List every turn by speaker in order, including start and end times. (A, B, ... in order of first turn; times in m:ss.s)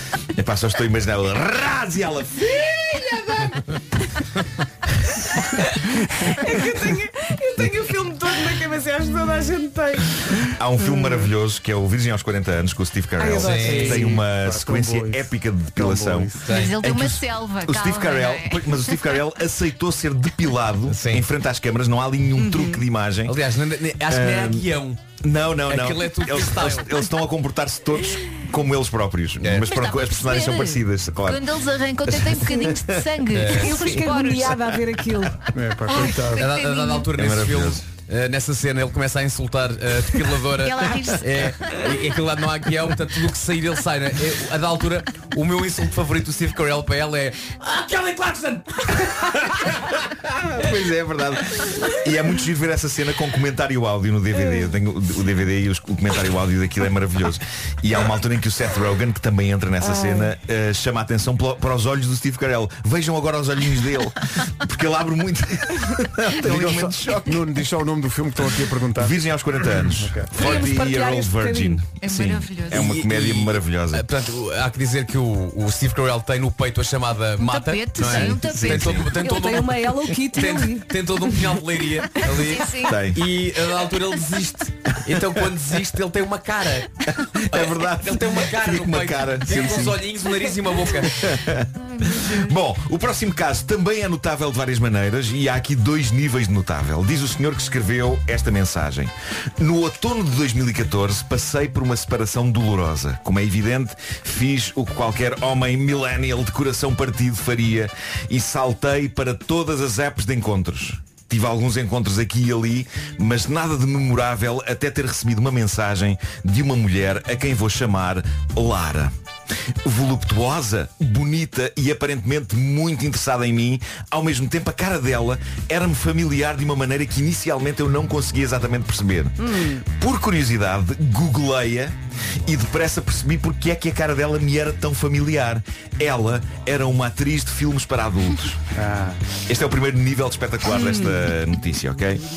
0:00.3-0:03.6 A
0:05.5-0:10.4 B
0:10.5-0:23.4 A
0:13.2-0:14.1 B
0:13.4-0:14.1 C
0:13.6-0:16.5 D
0:16.4-0:16.8 C
0:16.5-0:19.1 E
0:20.9-0:21.3 C
0:22.4-0:22.8 B
0:23.2-0:25.0 C
0:24.0-0:33.1 A
0:25.7-0:27.0 C
0:29.4-0:29.7 C
0:29.6-0:34.6 E
0:33.3-0:33.7 C
0:33.5-0:35.4 B
0:35.5-0:36.5 D
0:35.9-0:37.1 E
0:36.4-0:48.6 C
0:37.1-0:37.9 A
0:40.6-0:41.7 E
0:50.3-1:07.5 A
1:06.4-1:09.1 D
1:08.9-1:14.1 A
1:09.8-1:10.3 D
1:10.3-1:11.8 B
1:12.0-1:12.9 E
1:12.7-1:26.9 C
1:17.4-1:19.0 E
1:18.0-1:19.2 A
1:19.2-1:21.4 B
1:22.2-1:23.0 E
1:22.8-1:23.2 A
1:25.1-1:25.5 A
1:27.3-1:30.0 A
1:27.5-1:31.2 C
1:31.2-1:59.1 A
1:59.8-2:18.6 A
2:09.4-2:09.8 B
2:18.7-2:19.2 D
2:19.4-2:22.2 A
2:20.7-2:21.2 B